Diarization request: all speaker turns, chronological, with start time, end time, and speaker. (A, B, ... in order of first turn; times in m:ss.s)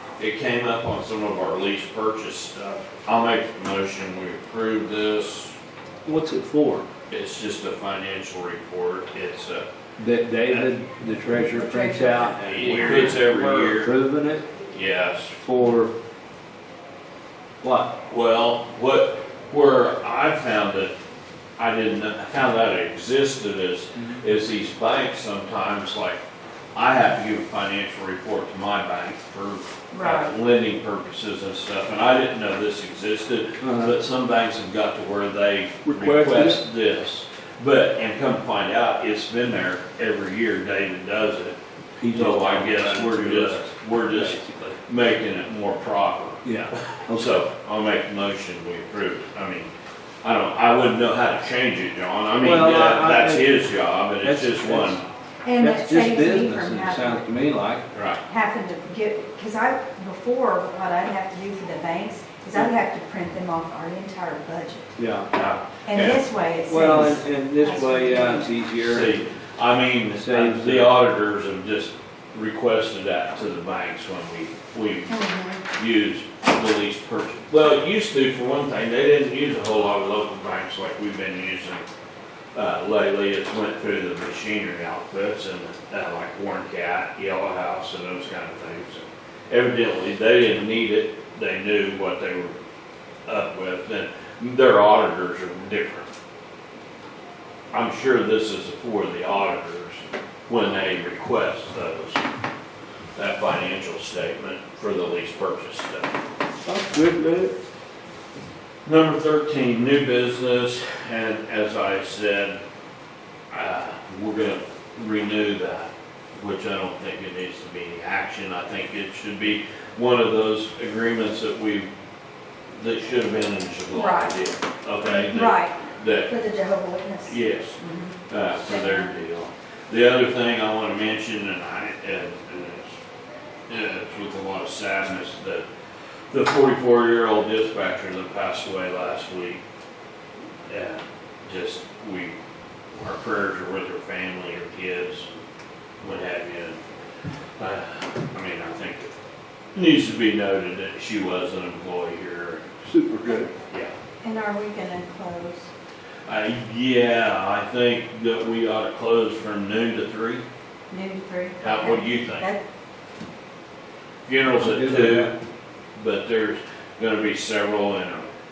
0:00.2-0:05.5 A
0:06.0-0:06.8 B
0:07.1-0:09.7 A
0:10.0-0:14.4 B
0:10.4-0:10.7 A
0:11.5-0:13.2 C
0:12.4-0:13.9 A
0:14.7-0:15.4 A
0:15.4-0:15.9 B
0:17.6-0:17.9 B
0:18.1-0:20.9 A
0:21.6-0:26.2 A
0:26.7-0:41.6 A
0:29.9-0:30.3 C
0:33.6-0:34.0 B
0:35.8-0:36.6 B
0:42.0-0:44.8 B
0:42.1-0:49.7 A
0:46.4-0:47.2 B
0:50.2-0:55.0 A
0:52.4-0:53.6 B
0:54.2-0:55.0 B
0:55.4-0:57.3 C
0:55.6-0:57.8 B
0:57.9-0:58.2 A
0:58.2-1:04.9 C
1:05.0-1:05.3 B
1:05.3-1:06.2 A
1:05.9-1:08.5 C
1:06.7-1:09.1 B
1:08.8-1:21.8 A
1:10.2-1:11.0 B
1:15.1-1:15.6 C
1:22.5-1:32.5 A
1:33.3-1:36.1 A
1:37.7-1:42.2 A
1:43.2-1:46.1 A
1:46.6-1:47.5 B
1:48.8-1:52.6 A
1:53.5-2:01.9 A
2:02.8-2:06.3 A
2:03.9-2:04.4 C
2:05.0-2:09.1 C
2:07.2-2:12.9 A
2:13.7-2:15.6 A
2:16.3-2:19.6 A
2:20.7-2:22.4 A
2:22.9-2:25.3 A
2:26.0-2:26.8 A
2:27.6-2:29.1 A
2:29.7-2:32.7 A
2:32.8-2:33.5 B
2:34.2-2:35.7 C
2:36.2-2:40.4 A
2:40.9-2:42.6 C
2:41.6-2:42.5 A
2:44.2-2:45.3 A
2:44.6-2:45.3 B
2:46.0-2:48.3 A